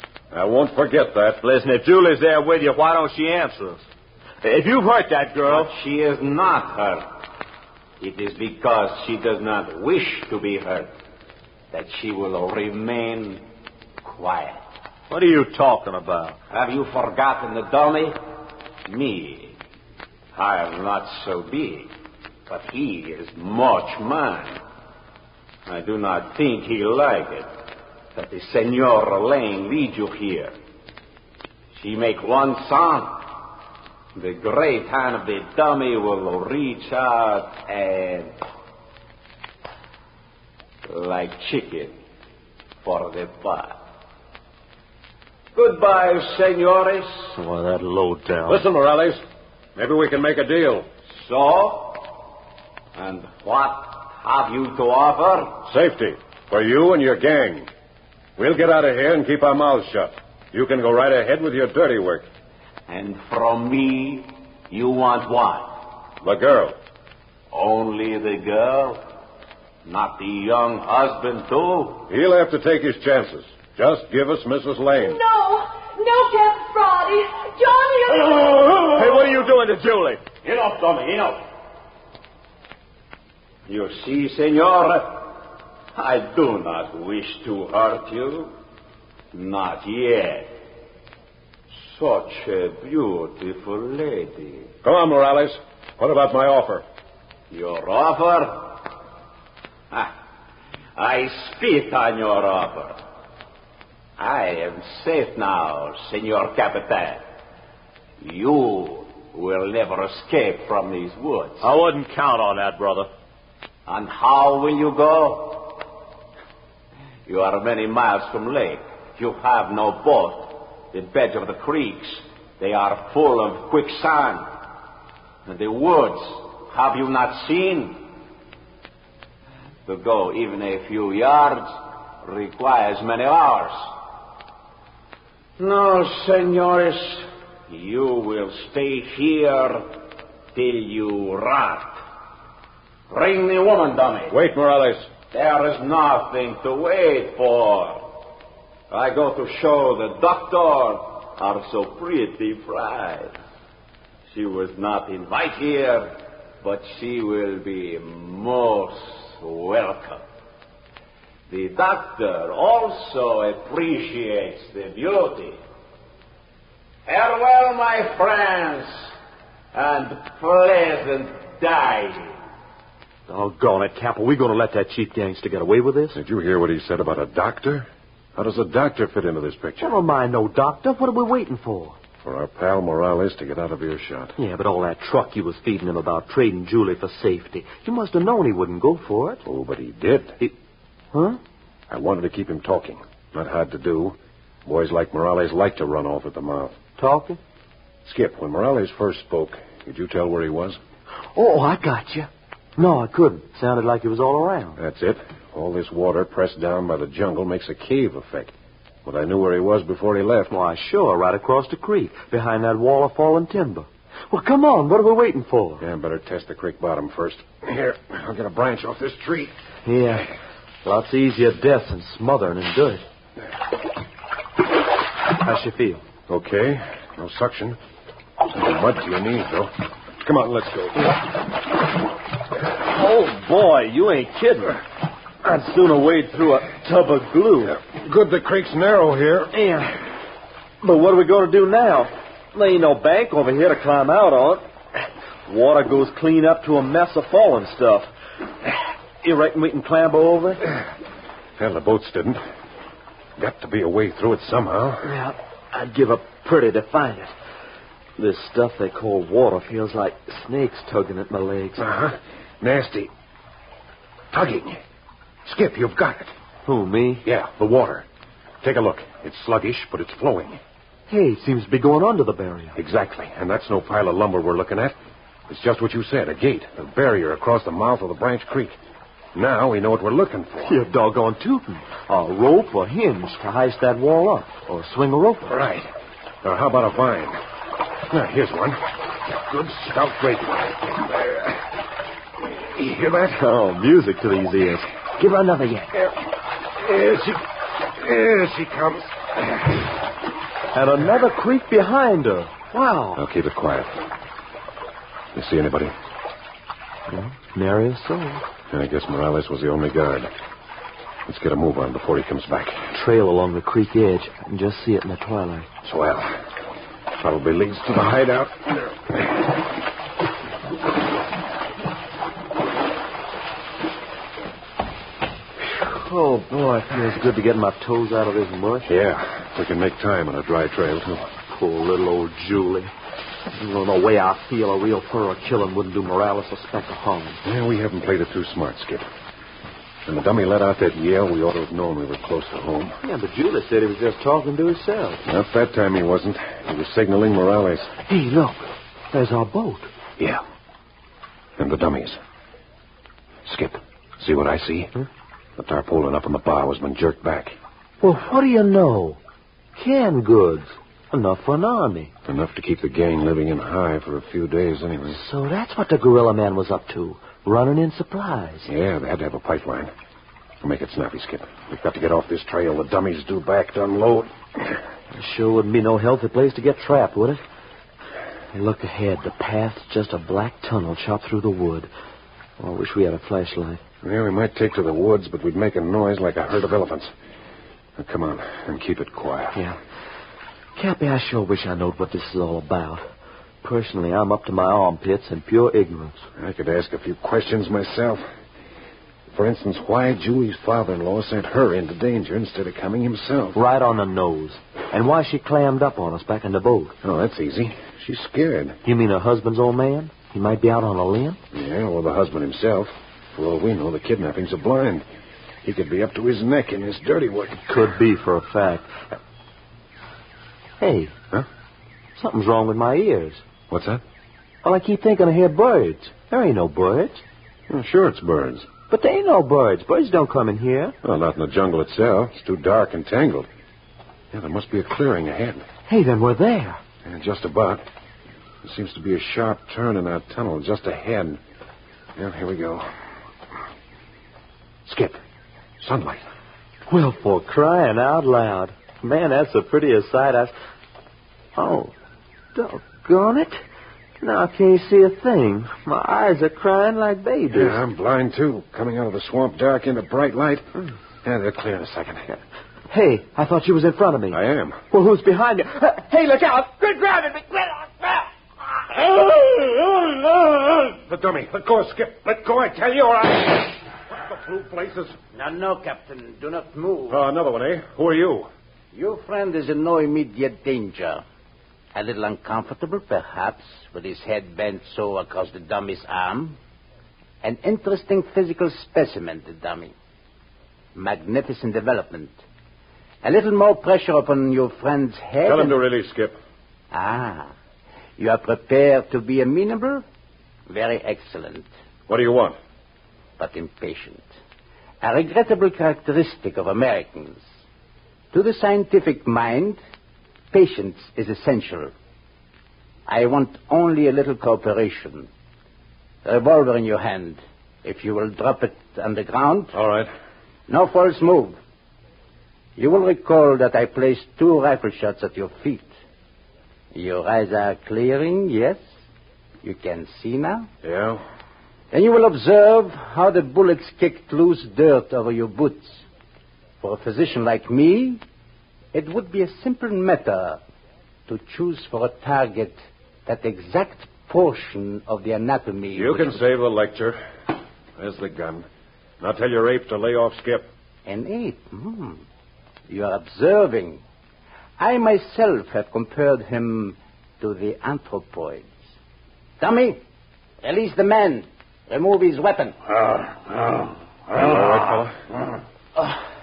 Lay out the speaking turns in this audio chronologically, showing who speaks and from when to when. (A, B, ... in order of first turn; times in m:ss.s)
0:00.3-0:01.4 A
0:01.4-0:03.8 B
0:04.4-0:05.7 B
0:05.5-0:07.2 C
0:08.0-0:10.9 C
0:11.7-0:13.4 C
0:14.0-0:14.6 C
0:15.1-0:16.4 B
0:16.5-0:18.2 C
0:18.9-0:19.6 C
0:20.3-0:21.9 C
0:22.5-0:24.6 C
0:25.6-0:27.5 C
0:28.1-0:30.5 C
0:31.7-0:33.2 C
0:34.1-0:38.3 C
0:40.8-0:42.0 C
0:42.8-0:43.8 C
0:45.5-0:47.3 C
0:47.3-0:48.6 B
0:48.4-0:49.2 A
0:49.8-0:50.9 A
0:51.1-0:52.3 C
0:52.9-0:55.6 C
0:55.6-0:57.7 A
0:58.4-1:02.3 A
1:02.9-1:05.8 C
1:06.2-1:06.7 A
1:07.5-1:09.0 C
1:09.8-1:12.1 C
1:12.1-1:15.2 A
1:15.0-1:18.7 D
1:18.5-1:19.3 C
1:18.9-1:20.2 B
1:20.4-1:21.4 C
1:23.7-1:25.4 C
1:25.9-1:28.5 C
1:29.3-1:30.5 C
1:31.8-1:34.7 C
1:34.8-1:36.8 A
1:37.5-1:38.8 C
1:41.0-1:43.0 C
1:44.2-1:47.2 C
1:48.2-1:51.7 C
1:51.6-1:53.1 B
1:53.8-1:55.8 C
1:57.2-2:04.5 C
2:05.4-2:08.1 C
2:09.8-2:13.9 C
2:15.6-2:19.9 C
2:20.5-2:22.0 C
2:23.1-2:24.3 C
2:24.3-2:25.1 A
2:25.3-2:28.1 C
2:28.9-2:33.4 C
2:34.3-2:40.2 C
2:41.5-2:45.6 C
2:47.0-2:49.1 C
2:49.7-2:52.4 C
2:53.3-2:56.2 B
2:56.1-3:00.0 A
2:59.8-3:02.0 B
3:02.2-3:04.4 A
3:04.4-3:09.4 B
3:09.4-3:10.4 A
3:11.1-3:11.4 B
3:11.9-3:16.8 A
3:17.0-3:17.4 B
3:18.0-3:20.8 A
3:21.3-3:24.8 B
3:24.8-3:28.5 A
3:29.0-3:30.5 A
3:30.5-3:35.8 B
3:35.8-3:39.5 A
3:39.8-3:40.3 B
3:40.8-3:43.0 B
3:45.3-3:46.0 B
3:46.3-3:47.8 A
3:48.5-3:51.4 A
3:52.8-3:54.8 B
3:55.4-3:57.8 B
3:57.8-3:59.5 A
3:59.5-4:00.0 B
4:00.8-4:04.6 B
4:05.5-4:08.1 B
4:09.2-4:10.6 B
4:11.6-4:12.4 A
4:13.4-4:15.1 A
4:15.0-4:17.3 B
4:18.2-4:21.8 B
4:21.8-4:23.1 A
4:24.3-4:24.8 A
4:25.4-4:26.3 A
4:26.6-4:27.2 B
4:27.2-4:28.0 A
4:28.6-4:30.6 A
4:31.1-4:32.8 B
4:32.7-4:34.9 A
4:35.5-4:38.8 A
4:39.3-4:40.8 A
4:40.7-4:45.5 B
4:45.5-4:45.9 A
4:46.4-4:47.4 A
4:48.1-4:51.6 A
4:52.5-4:53.4 A
4:53.3-4:55.9 B
4:56.7-4:59.8 A
5:00.7-5:03.2 B
5:03.2-5:04.0 A
5:05.3-5:05.9 A
5:07.1-5:08.4 B
5:08.7-5:10.3 A
5:11.2-5:12.9 A
5:12.9-5:15.7 B
5:15.8-5:16.5 A
5:17.2-5:19.4 A
5:25.7-5:28.9 B
5:28.8-5:31.3 A
5:31.4-5:32.9 B
5:33.5-5:37.4 B
5:37.4-5:39.0 A
5:40.0-5:43.0 A
5:43.0-5:45.2 B
5:45.2-5:48.0 A
5:48.0-5:49.9 B
5:51.6-5:52.2 A
5:53.4-5:54.9 A
5:55.6-5:57.6 A
5:58.0-5:59.2 B
5:59.7-6:02.1 B
6:02.3-6:05.2 A
6:05.1-6:08.7 B
6:08.7-6:09.9 A
6:10.6-6:14.8 A
6:15.1-6:17.4 B
6:18.5-6:21.9 B
6:22.6-6:23.8 B
6:24.0-6:27.1 A
6:28.0-6:29.6 A
6:30.8-6:33.0 B
6:33.6-6:36.2 B
6:36.4-6:38.2 A
6:39.3-6:43.6 A
6:43.5-6:47.0 B
6:47.0-6:48.8 A
6:48.8-6:51.4 B
6:51.5-6:55.0 A
6:55.6-6:57.6 A
6:57.6-6:59.1 B
7:00.8-7:01.1 B
7:02.2-7:03.4 B
7:03.7-7:04.0 A
7:04.6-7:07.2 B
7:07.7-7:08.7 A
7:08.9-7:10.9 B
7:11.0-7:13.5 A
7:14.3-7:15.6 A
7:15.9-7:16.8 B
7:17.0-7:17.8 A
7:18.6-7:21.4 A
7:22.2-7:22.9 A
7:24.8-7:25.2 A
7:25.8-7:26.2 A
7:26.9-7:30.5 B
7:31.5-7:31.9 B
7:32.5-7:33.6 B
7:34.2-7:37.8 B
7:37.5-7:40.6 A
7:41.2-7:42.4 A
7:42.9-7:44.4 B
7:44.3-7:44.8 A
7:44.9-7:48.1 B
7:49.0-7:55.2 A
7:55.3-7:57.2 E
7:57.1-7:58.5 A
7:58.9-8:01.2 E
8:01.9-8:06.6 E
8:07.4-8:09.9 E
8:10.9-8:12.4 E
8:13.2-8:15.8 E
8:15.4-8:16.4 A
8:16.9-8:17.5 E
8:18.2-8:20.0 E
8:20.7-8:21.7 E
8:22.1-8:22.5 A
8:23.4-8:24.2 E
8:25.0-8:27.4 E
8:28.3-8:29.8 E
8:30.5-8:31.9 E
8:33.1-8:35.3 E
8:36.2-8:39.7 E
8:39.7-8:40.1 A
8:40.7-8:41.6 E
8:42.8-8:45.9 E
8:46.9-8:48.8 E
8:49.6-8:50.7 E
8:50.8-8:51.2 A
8:51.9-8:56.0 E
8:56.8-8:58.2 E
8:58.9-9:00.6 E
9:01.3-9:06.4 E
9:05.9-9:07.2 A
9:08.0-9:08.6 A
9:09.2-9:10.7 A
9:11.0-9:12.2 E
9:12.9-9:14.0 E
9:14.8-9:18.8 E
9:19.6-9:20.0 E
9:20.6-9:23.0 E
9:24.3-9:25.1 A